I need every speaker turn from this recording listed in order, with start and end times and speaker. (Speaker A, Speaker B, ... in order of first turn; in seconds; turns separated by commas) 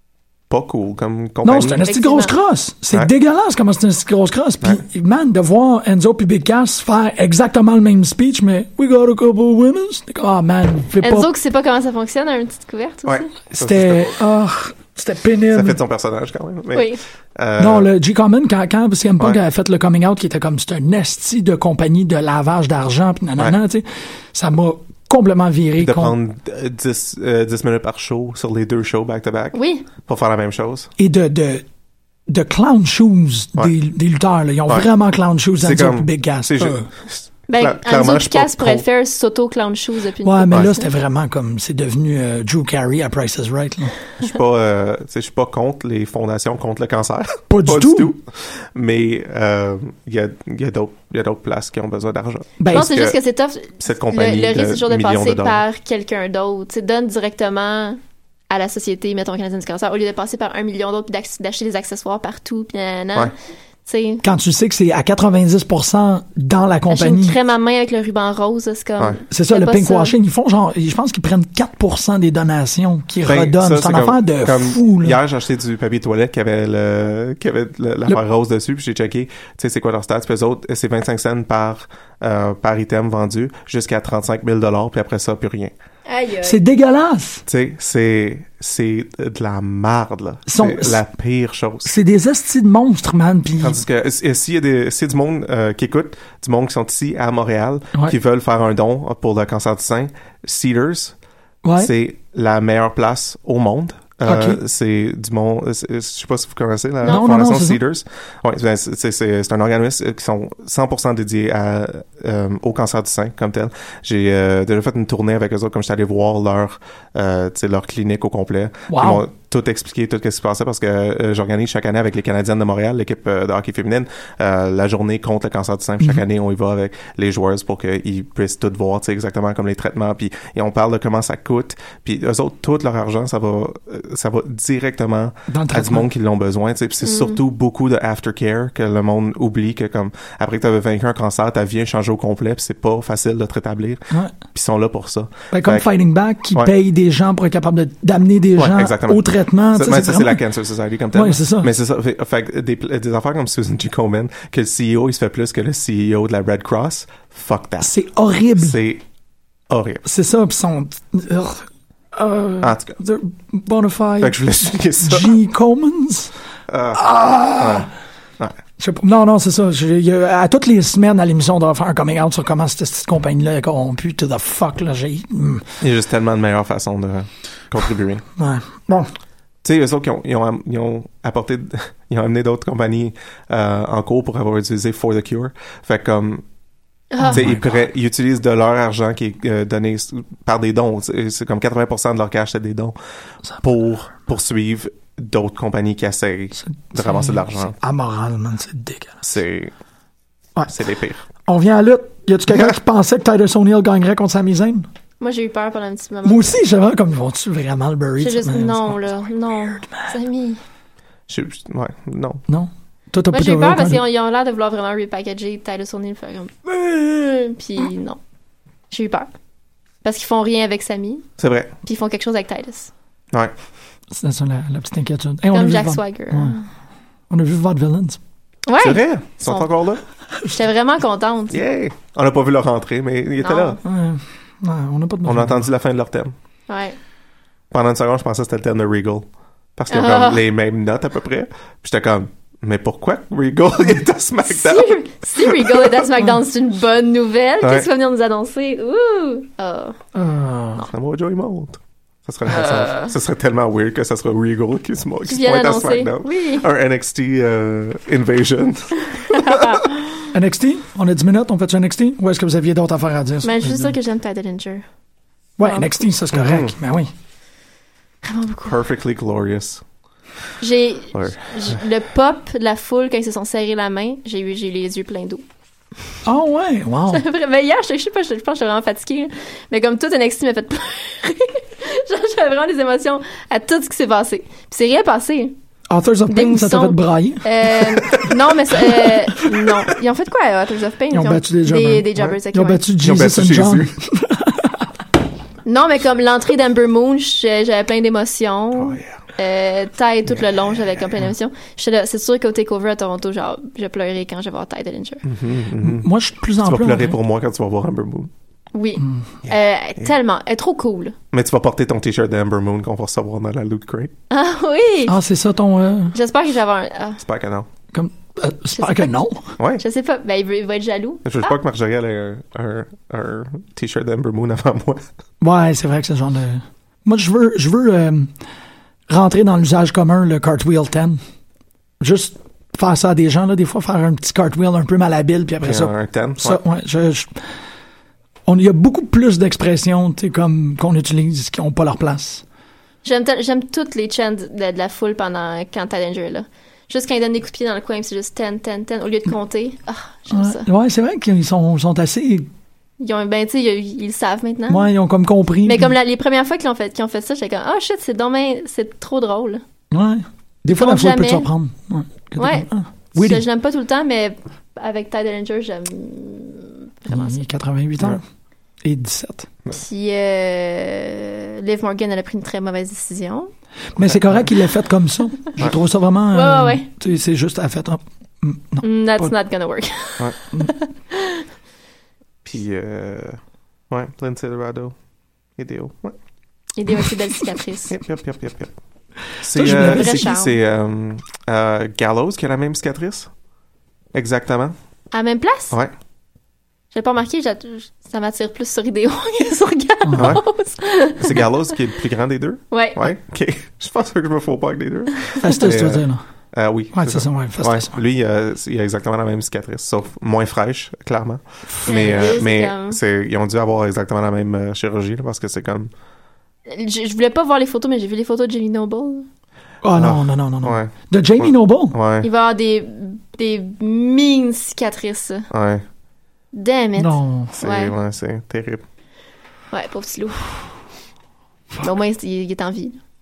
Speaker A: 0.5-1.9, Speaker B: 1.4-11.3, Speaker C: 1.8-2.4, Speaker C: 11.0-13.3, Speaker A: 13.1-14.1, Speaker B: 13.5-15.8, Speaker A: 15.5-17.9, Speaker C: 16.7-17.0, Speaker B: 17.6-26.1, Speaker A: 25.8-30.9, Speaker C: 29.5-29.9, Speaker B: 31.0-31.6, Speaker B: 32.3-36.9, Speaker A: 35.6-38.8, Speaker C: 37.5-40.9, Speaker B: 40.2-44.0, Speaker A: 44.2-53.2, Speaker B: 47.5-48.1, Speaker B: 52.6-52.9, Speaker C: 52.7-58.0, Speaker A: 53.8-55.6, Speaker C: 58.5-63.3, Speaker C: 63.8-64.2, Speaker B: 64.2-67.4, Speaker C: 66.9-70.1, Speaker B: 69.3-75.2, Speaker A: 73.2-85.7, Speaker C: 86.1-86.6, Speaker B: 86.4-87.4, Speaker A: 87.5-91.9, Speaker B: 90.5-91.0, Speaker B: 91.8-93.8, Speaker A: 93.6-101.1, Speaker B: 101.6-101.9, Speaker A: 101.8-145.9, Speaker B: 104.2-104.6, Speaker C: 107.0-107.3, Speaker B: 107.1-107.8, Speaker B: 118.9-119.2, Speaker B: 135.5-136.1, Speaker C: 137.0-137.4, Speaker B: 145.5-150.4, Speaker A: 148.6-157.9, Speaker B: 151.1-151.7, Speaker B: 157.8-158.8, Speaker A: 158.6-159.0, Speaker A: 159.7-160.0, Speaker B: 160.0-166.3, Speaker A: 162.6-163.0, Speaker A: 164.2-165.4, Speaker A: 166.7-167.0, Speaker B: 166.9-167.9, Speaker A: 167.6-167.9, Speaker B: 168.8-175.7, Speaker A: 175.8-178.2, Speaker B: 178.4-179.1, Speaker A: 179.6-186.4, Speaker C: 187.1-187.4, Speaker B: 187.2-187.7, Speaker A: 187.3-192.9, Speaker A: 193.6-197.8, Speaker B: 196.6-199.3, Speaker A: 199.2-199.7, Speaker A: 200.7-201.2, Speaker B: 201.4-204.9, Speaker C: 205.2-206.6, Speaker B: 206.2-210.1, Speaker C: 208.2-210.6, Speaker A: 211.3-212.4, Speaker B: 212.5-214.0, Speaker C: 213.3-218.2, Speaker C: 218.9-219.3, Speaker C: 220.0-221.2, Speaker A: 221.4-221.7, Speaker C: 221.8-222.9, Speaker B: 224.1-226.6, Speaker C: 225.5-226.7, Speaker B: 227.3-228.2, Speaker C: 228.7-229.7, Speaker A: 228.8-230.0, Speaker C: 230.5-231.6, Speaker A: 231.5-233.8, Speaker C: 233.4-233.8, Speaker B: 233.8-235.7, Speaker A: 235.2-236.3, Speaker C: 236.7-236.9, Speaker A: 237.7-246.1, Speaker C: 239.9-240.4, Speaker C: 244.5-250.0, Speaker A: 247.6-247.9, Speaker B: 250.1-250.8, Speaker A: 250.8-259.6, Speaker C: 252.5-253.1, Speaker C: 255.3-256.6, Speaker C: 259.1-260.3, Speaker B: 260.3-263.9, Speaker C: 263.4-264.8, Speaker B: 265.6-267.1, Speaker C: 265.6-265.9, Speaker A: 266.3-266.7, Speaker C: 268.2-268.7, Speaker A: 268.6-269.8, Speaker C: 270.6-275.4, Speaker A: 271.1-271.8, Speaker B: 276.2-277.2, Speaker C: 277.1-285.6, Speaker B: 285.9-288.2, Speaker C: 286.3-292.8, Speaker B: 288.8-289.7, Speaker B: 291.1-295.0, Speaker A: 293.0-293.9, Speaker C: 295.6-305.2, Speaker A: 298.8-299.1, Speaker A: 305.2-308.3, Speaker B: 305.8-307.2, Speaker C: 308.7-311.1, Speaker B: 309.0-309.3, Speaker A: 311.3-314.1, Speaker C: 314.3-315.2, Speaker B: 315.1-316.1, Speaker C: 316.1-317.2, Speaker A: 317.2-317.7, Speaker B: 317.9-319.5, Speaker C: 318.8-319.1, Speaker C: 319.8-321.6, Speaker A: 321.2-325.1, Speaker B: 325.4-328.3, Speaker B: 329.1-331.2, Speaker B: 332.0-337.6, Speaker A: 335.6-336.6, Speaker B: 338.5-342.4, Speaker C: 343.0-350.7, Speaker B: 350.3-352.5, Speaker C: 353.0-354.9, Speaker B: 354.7-355.9, Speaker C: 355.6-359.6, Speaker B: 359.9-363.5, Speaker C: 360.8-361.5, Speaker C: 362.4-367.4, Speaker B: 367.1-368.2, Speaker B: 368.8-369.5, Speaker C: 369.7-373.5, Speaker B: 373.9-379.3, Speaker C: 376.3-376.9, Speaker C: 378.8-381.4, Speaker A: 382.4-384.9, Speaker A: 385.6-386.1, Speaker C: 386.8-387.9, Speaker A: 387.9-388.7, Speaker A: 389.4-393.3, Speaker B: 389.5-390.3, Speaker C: 389.6-390.6, Speaker A: 394.1-394.7, Speaker C: 395.1-395.7, Speaker C: 396.9-401.4, Speaker B: 400.0-400.4, Speaker A: 400.1-400.4, Speaker A: 401.1-415.9, Speaker C: 402.7-403.1, Speaker B: 405.4-406.2, Speaker B: 406.9-408.0, Speaker C: 411.8-413.0, Speaker C: 416.7-419.3, Speaker B: 419.8-422.0, Speaker A: 419.9-422.3, Speaker C: 422.2-425.5, Speaker A: 425.5-425.8, Speaker C: 426.5-427.9, Speaker B: 427.0-427.5, Speaker A: 427.6-428.8, Speaker C: 429.7-430.8, Speaker C: 431.8-433.0